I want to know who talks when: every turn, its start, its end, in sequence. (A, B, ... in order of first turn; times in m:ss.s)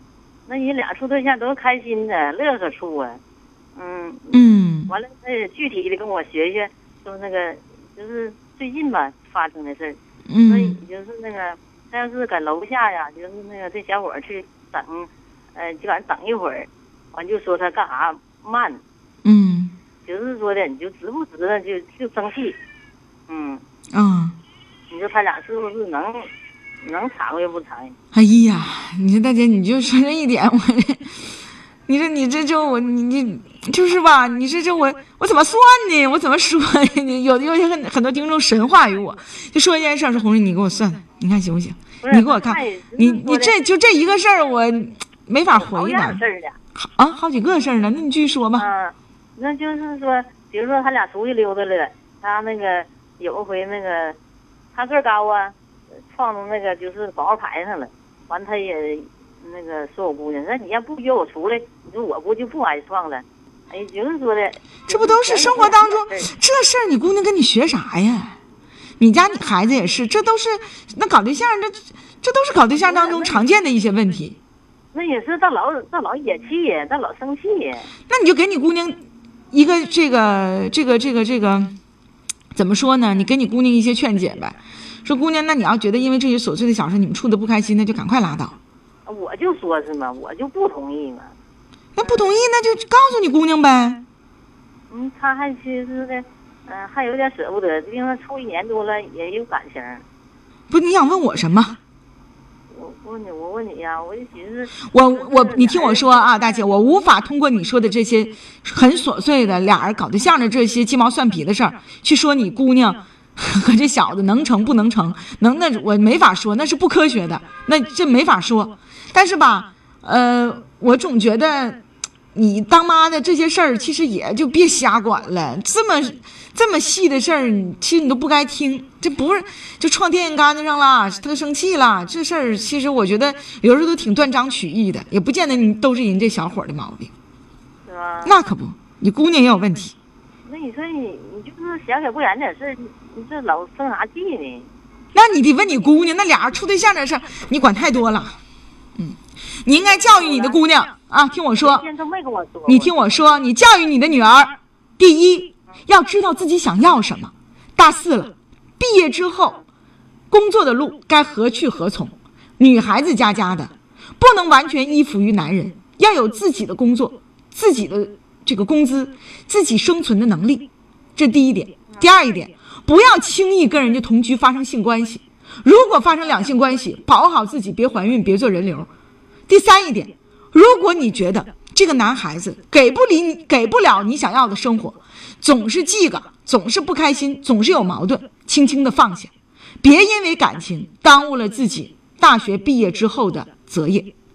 0:00.5-0:03.2 A
0:03.8-0:18.8 A
0:04.3-0:04.9 B
0:10.3-0:10.8 B
0:19.2-0:19.8 B
0:20.0-0:22.6 A
0:23.3-0:23.6 A
0:23.9-0:24.4 B
0:24.9-0:26.3 A
0:26.8-0:28.0 A
0:28.1-0:31.3 B
0:31.9-0:46.2 B
0:42.0-0:43.6 A
0:45.5-0:46.6 A
0:46.8-0:48.7 B
0:48.6-0:54.2 A
0:54.7-0:55.6 A
0:56.1-1:06.3 A
1:04.9-1:08.4 B
1:09.0-1:14.4 B
1:12.8-1:13.4 A
1:14.9-1:17.9 A
1:18.1-1:21.8 B
1:22.5-1:28.6 B
1:29.1-1:31.3 A
1:32.0-1:34.0 B
1:32.0-1:32.3 A
1:34.9-1:40.0 A
1:40.7-1:41.8 B
1:42.7-1:46.7 A
1:44.9-2:01.8 B
2:02.3-2:17.1 B
2:17.9-2:18.4 A
2:18.2-2:20.0 B
2:20.5-2:24.7 A
2:25.1-2:28.4 B
2:29.0-2:31.9 B
2:29.7-2:30.6 A
2:31.6-2:33.0 A
2:32.7-2:39.6 B
2:40.3-2:58.9 B
2:59.5-3:09.3 B
3:09.8-3:14.1 B